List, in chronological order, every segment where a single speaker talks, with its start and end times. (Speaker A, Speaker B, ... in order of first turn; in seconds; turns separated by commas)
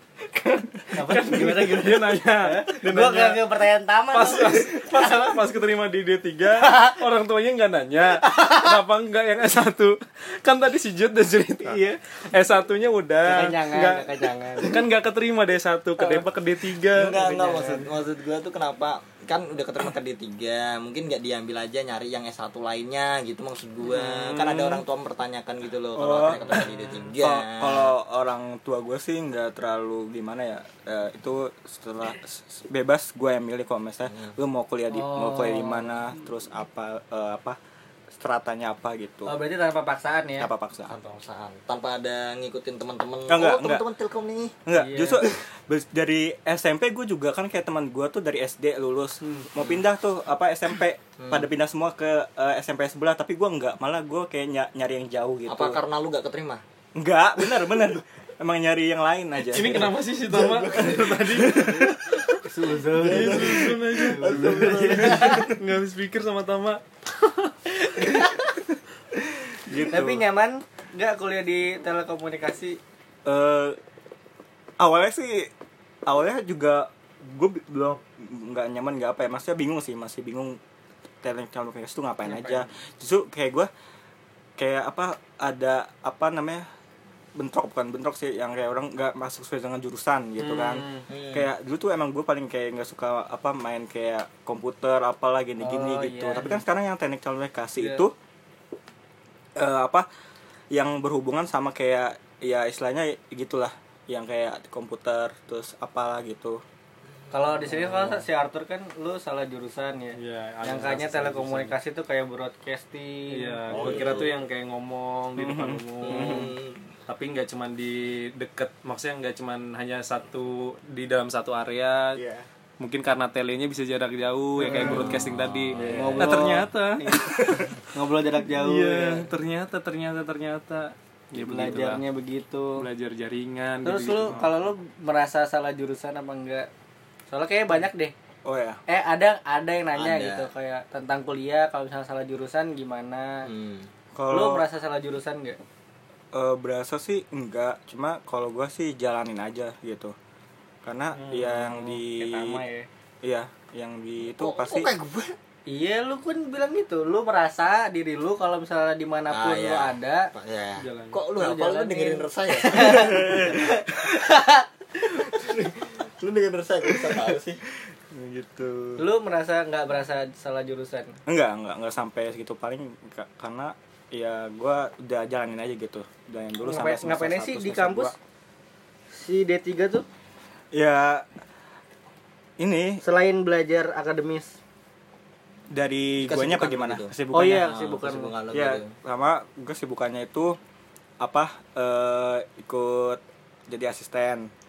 Speaker A: 0.9-4.9, Speaker B: 0.9-3.4, Speaker B: 4.1-17.2, Speaker A: 8.3-8.7, Speaker A: 11.6-12.0, Speaker A: 13.2-14.8, Speaker C: 16.9-27.9, Speaker A: 17.1-17.9, Speaker B: 23.8-24.8, Speaker D: 25.9-37.6, Speaker C: 34.1-34.3, Speaker A: 34.9-36.0, Speaker D: 38.1-39.3, Speaker A: 39.2-40.5, Speaker D: 40.4-40.9, Speaker C: 40.9-44.5, Speaker D: 43.3-43.8, Speaker D: 44.6-55.8, Speaker A: 44.7-45.3, Speaker C: 49.6-49.8, Speaker C: 51.2-51.5, Speaker C: 55.5-56.6, Speaker D: 57.0-59.9, Speaker B: 59.5-62.4, Speaker C: 59.5-61.2, Speaker D: 61.3-62.0, Speaker A: 62.4-65.5, Speaker C: 62.9-65.5, Speaker B: 63.0-66.8, Speaker A: 67.8-68.5, Speaker D: 69.6-70.2, Speaker A: 69.9-72.8, Speaker D: 73.2-73.8, Speaker D: 74.8-75.5, Speaker D: 76.0-80.6, Speaker D: 81.2-83.7, Speaker D: 84.6-86.6, Speaker D: 87.3-98.1, Speaker B: 90.4-91.0, Speaker C: 91.1-91.5, Speaker A: 95.6-96.6, Speaker D: 99.5-100.1, Speaker D: 100.7-106.6, Speaker C: 107.3-108.2, Speaker A: 107.3-114.1, Speaker B: 110.2-111.8, Speaker B: 113.3-116.5, Speaker C: 113.7-114.3, Speaker D: 115.4-116.5, Speaker C: 116.0-116.9, Speaker B: 117.1-122.2, Speaker D: 122.1-122.5, Speaker B: 122.8-127.2, Speaker A: 124.6-125.0, Speaker C: 124.7-126.2, Speaker D: 125.7-127.7, Speaker A: 126.1-129.3, Speaker B: 128.4-132.0, Speaker A: 131.3-132.8, Speaker B: 132.8-134.4, Speaker A: 133.8-136.7, Speaker D: 134.3-134.5, Speaker A: 137.3-138.1, Speaker D: 138.4-138.8, Speaker A: 138.9-143.5, Speaker C: 139.9-140.5, Speaker C: 143.4-143.9, Speaker D: 144.1-144.6, Speaker A: 144.3-145.6, Speaker D: 146.3-150.1, Speaker D: 150.8-152.6, Speaker B: 151.1-152.0, Speaker A: 152.1-152.9, Speaker D: 153.2-154.9, Speaker C: 154.3-155.3, Speaker A: 155.7-160.3, Speaker C: 159.3-163.8, Speaker B: 160.8-161.2, Speaker A: 161.3-164.7, Speaker D: 163.0-163.7, Speaker C: 165.0-167.6, Speaker D: 168.1-169.1, Speaker A: 169.0-171.2, Speaker D: 171.3-178.1, Speaker A: 176.6-178.1, Speaker A: 179.1-180.1, Speaker D: 180.7-181.2, Speaker D: 182.6-183.0, Speaker A: 183.0-184.6, Speaker D: 185.7-187.7, Speaker C: 186.2-188.9, Speaker A: 187.3-188.3, Speaker D: 188.5-190.6, Speaker D: 191.2-194.5